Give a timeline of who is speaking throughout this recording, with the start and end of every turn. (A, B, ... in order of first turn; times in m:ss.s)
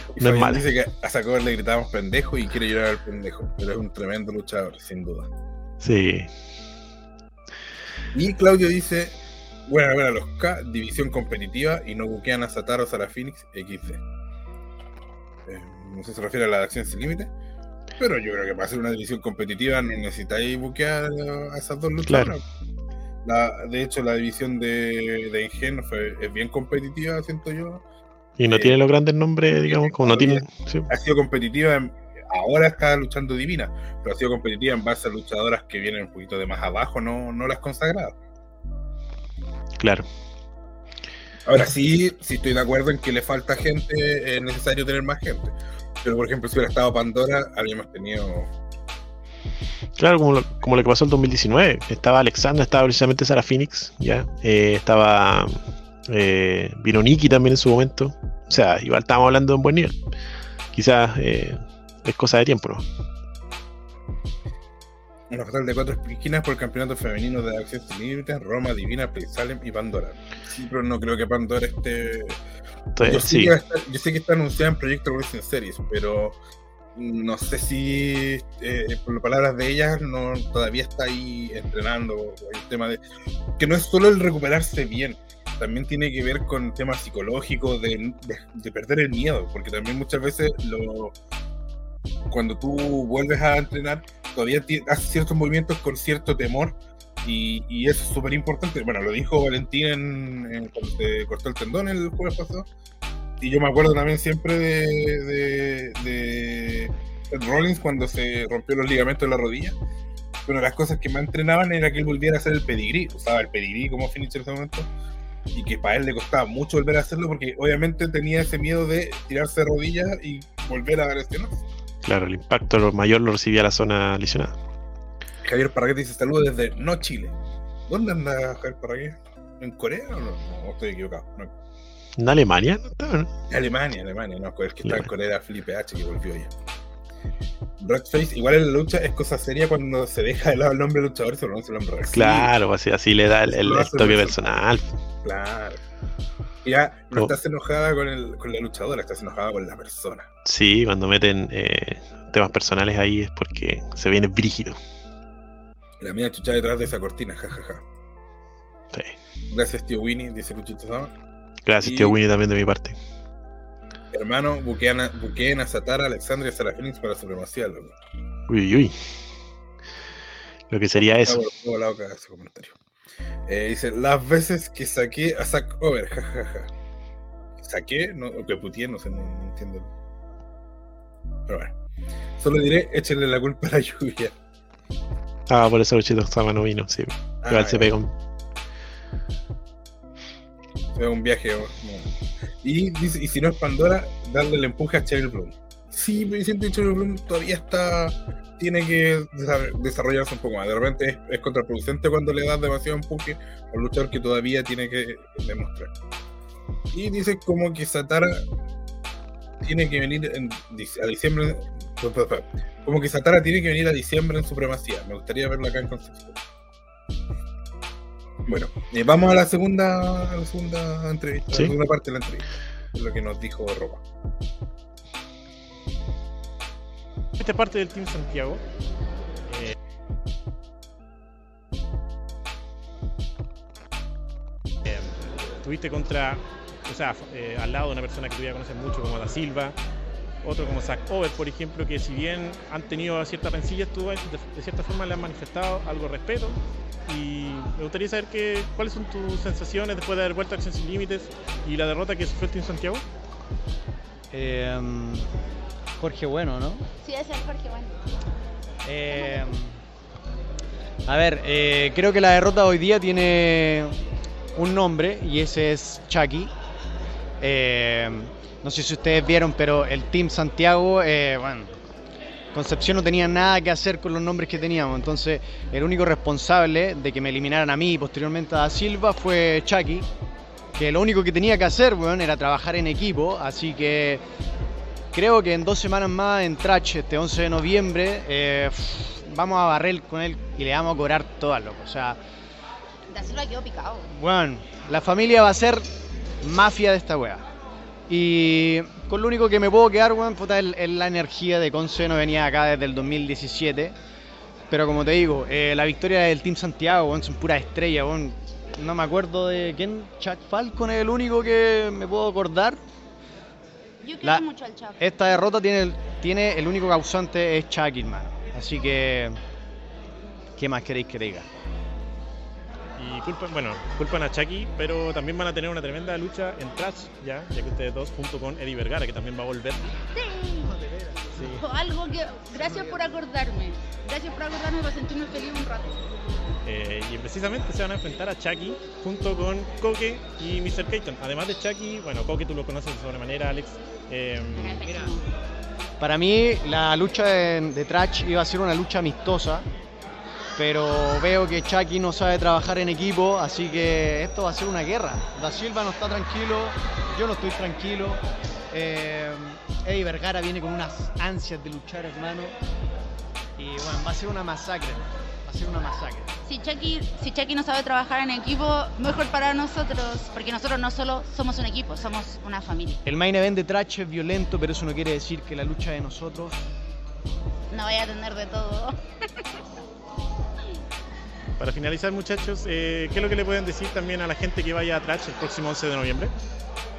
0:00.2-0:05.3 A
0:00.2-0:00.6 B
0:05.8-0:06.3 B
0:08.1-0:14.0 A
0:15.4-0:17.3 A
0:18.0-0:22.4 A
0:22.0-0:22.3 B
0:23.2-0:27.8 A
0:28.4-0:30.9 B
0:28.5-0:28.8 A
0:29.5-0:38.1 A
0:39.8-0:40.1 B
0:41.5-0:48.5 A
0:50.0-0:55.6 B
0:56.1-1:00.0 B
1:00.7-1:02.8 B
1:05.3-1:12.4 A
1:13.0-1:13.5 B
1:13.0-1:16.4 A
1:17.0-1:23.0 A
1:23.6-1:31.1 A
1:32.3-1:42.7 A
1:43.4-1:49.8 A
1:50.5-1:54.9 A
1:55.5-2:01.6 A
2:02.0-2:04.5 B
2:05.4-2:07.4 A
2:07.9-2:11.5 A
2:12.2-2:13.3 B
2:13.5-2:16.5 A
2:17.8-2:22.5 A
2:22.1-2:25.0 B
2:23.5-2:24.5 A
2:25.2-2:25.8 A
2:26.6-2:30.3 A
2:30.4-2:34.8 B
2:36.0-2:37.8 A
2:39.5-2:41.1 A
2:41.6-2:43.0 B
2:41.8-2:42.2 A
2:44.1-2:48.0 A
2:48.5-2:49.0 B
2:50.7-2:51.4 B
2:51.0-2:52.8 A
2:53.5-2:56.7 A
2:57.6-2:59.9 A
3:01.5-3:01.7 A
3:02.4-3:04.3 A
3:05.5-3:08.1 B
3:07.4-3:07.9 A
3:10.9-3:12.1 A
3:12.6-3:25.9 A
3:26.9-3:28.4 A
3:29.6-3:36.4 A
3:38.5-3:44.0 A
3:47.4-3:48.6 C
3:49.5-3:49.8 C
3:54.8-3:59.8 C
4:00.4-4:13.0 C
4:14.3-4:15.3 D
4:16.0-4:16.8 D
4:17.0-4:18.0 E
4:18.8-4:19.8 D
4:19.1-4:19.4 E
4:21.0-4:24.0 D
4:24.5-4:26.5 D
4:27.4-4:31.7 D
4:32.5-4:40.1 D
4:40.7-4:44.2 D
4:45.1-4:52.2 D
4:53.1-4:54.1 E
4:54.1-4:55.9 D
4:56.4-4:57.5 D
4:58.1-5:04.0 D
5:04.7-5:12.8 D
5:14.0-5:15.4 E
5:15.0-5:19.4 D
5:20.6-5:21.5 D
5:23.0-5:29.8 C
5:30.1-5:30.7 E
5:30.7-5:31.3 D
5:31.3-5:31.6 C
5:31.5-5:36.0 E
5:32.5-5:33.0 D
5:36.6-5:44.9 C
5:44.6-5:45.2 E
5:46.0-5:49.7 D
5:50.6-6:02.6 D
6:03.6-6:06.3 D
6:06.4-6:13.0 E
6:13.0-6:16.6 D
6:17.7-6:19.4 E
6:21.6-6:26.3 C